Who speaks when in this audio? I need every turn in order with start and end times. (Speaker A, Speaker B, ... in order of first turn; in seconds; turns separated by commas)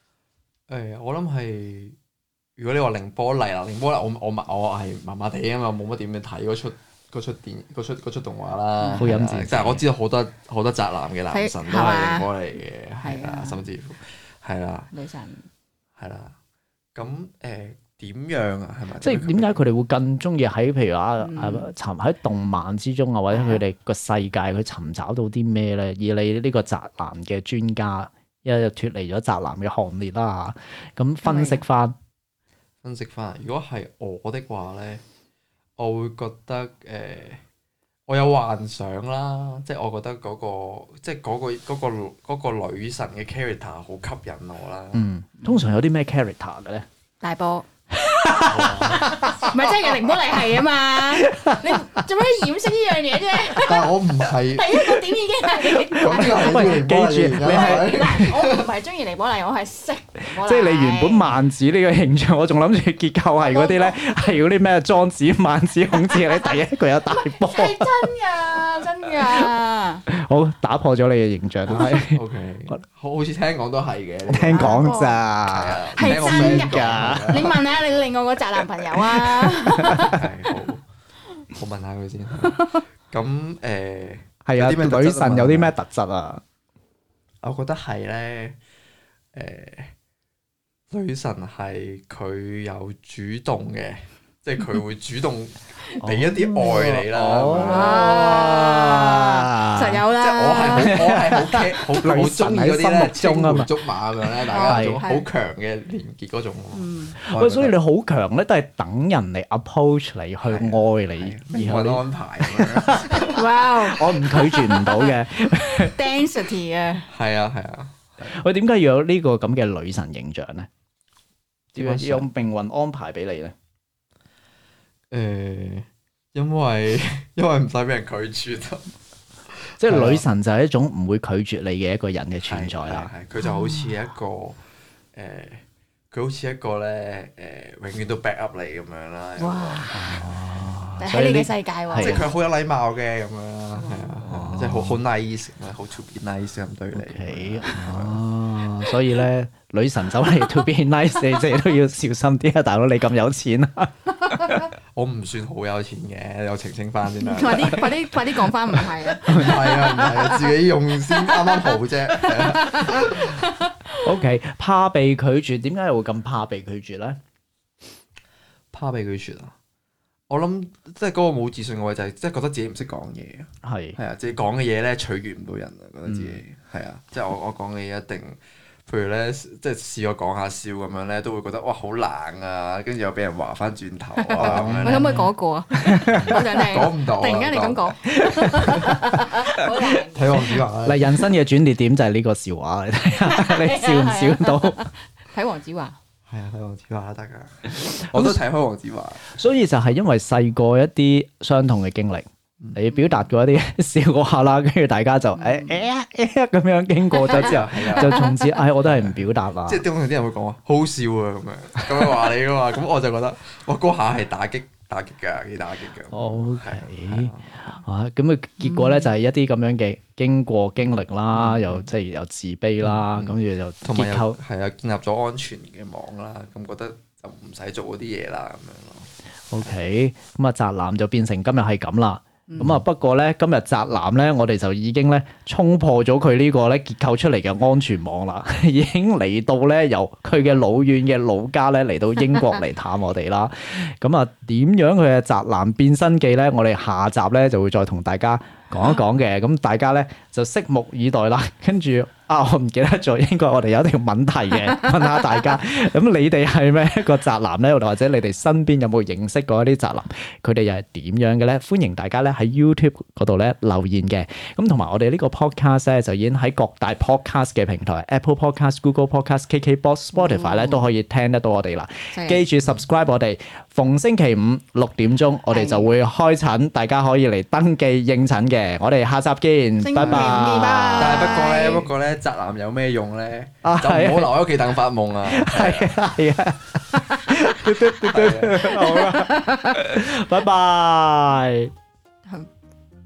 Speaker A: 0.7-1.9, Speaker A: 2.6-14.9, Speaker B: 8.8-9.1, Speaker C: 9.0-9.8, Speaker B: 11.3-12.3, Speaker B: 13.0-13.6, Speaker B: 14.9-15.4, Speaker A: 16.0-16.3, Speaker A: 16.9-19.6, Speaker C: 19.0-31.9, Speaker B: 21.2-21.7, Speaker B: 23.3-23.6, Speaker B: 31.2-31.6, Speaker A: 32.8-35.0, Speaker A: 35.8-37.4, Speaker A: 38.1-45.6, Speaker C: 44.9-46.9, Speaker B: 47.2-47.6, Speaker C: 48.2-49.5, Speaker A: 48.4-49.2, Speaker B: 49.0-61.3, Speaker C: 51.1-51.8, Speaker A: 53.6-54.9, Speaker C: 55.7-58.3, Speaker A: 55.9-58.7, Speaker C: 60.3-68.1, Speaker B: 63.3-64.1, Speaker B: 65.9-70.0, Speaker C: 69.2-69.5, Speaker C: 70.1-72.8, Speaker A: 71.7-77.6, Speaker C: 74.2-77.5, Speaker B: 74.5-75.2, Speaker B: 76.0-80.2, Speaker C: 79.2-80.1, Speaker A: 79.8-80.8, Speaker A: 81.5-85.7, Speaker B: 82.4-82.8, Speaker C: 84.4-86.4, Speaker A: 87.4-88.5, Speaker A: 89.3-89.9, Speaker A: 90.9-98.3, Speaker C: 96.0-100.0, Speaker B: 97.6-101.1, Speaker A: 100.2-107.8, Speaker C: 100.7-105.0, Speaker B: 104.5-105.3, Speaker B: 106.7-107.2, Speaker C: 107.3-113.3, Speaker A: 110.4-113.4, Speaker B: 113.1-117.0, Speaker C: 113.9-116.0, Speaker A: 117.1-118.4, Speaker C: 118.2-120.7, Speaker A: 121.7-122.3, Speaker C: 121.7-123.5, Speaker A: 125.1-128.9, Speaker A: 129.5-130.2, Speaker C: 129.8-133.1, Speaker A: 132.5-134.6, Speaker A: 135.1-140.2, Speaker B: 139.4-139.9, Speaker C: 139.9-142.2, Speaker B: 141.0-142.3, Speaker A: 141.9-148.2, Speaker B: 143.7-144.3, Speaker C: 144.2-145.0, Speaker C: 146.9-154.7, Speaker A: 154.9-157.9, Speaker B: 157.2-160.5, Speaker C: 159.2-159.5, Speaker A: 159.2-163.3, Speaker B: 161.1-164.0, Speaker C: 164.0-167.2, Speaker A: 168.7-169.5, Speaker A: 170.3-185.3, Speaker C: 173.6-174.0, Speaker C: 176.1-176.4, Speaker B: 184.2-190.6, Speaker C: 184.4-185.3, Speaker C: 185.9-186.3, Speaker A: 186.1-188.0, Speaker C: 188.1-189.6, Speaker A: 189.9-191.2, Speaker C: 190.8-194.8, Speaker B: 193.2-196.0, Speaker A: 196.3-199.3, Speaker C: 198.0-198.4, Speaker C: 199.3-209.8, Speaker B: 205.3-205.9, Speaker B: 207.1-208.6, Speaker A: 207.3-208.3, Speaker A: 208.8-217.6, Speaker C: 216.1-224.4, Speaker B: 218.6-219.1, Speaker A: 221.3-221.9, Speaker A: 222.8-229.1, Speaker C: 229.5-281.5, Speaker B: 232.5-232.8, Speaker B: 270.1-270.9, Speaker B: 272.1-272.4, Speaker B: 275.5-275.9, Speaker B: 279.8-281.9, Speaker A: 280.0-280.4, Speaker A: 280.9-286.0, Speaker C: 283.6-284.3, Speaker C: 285.3-291.7, Speaker A: 288.0-288.7, Speaker B: 288.6-289.7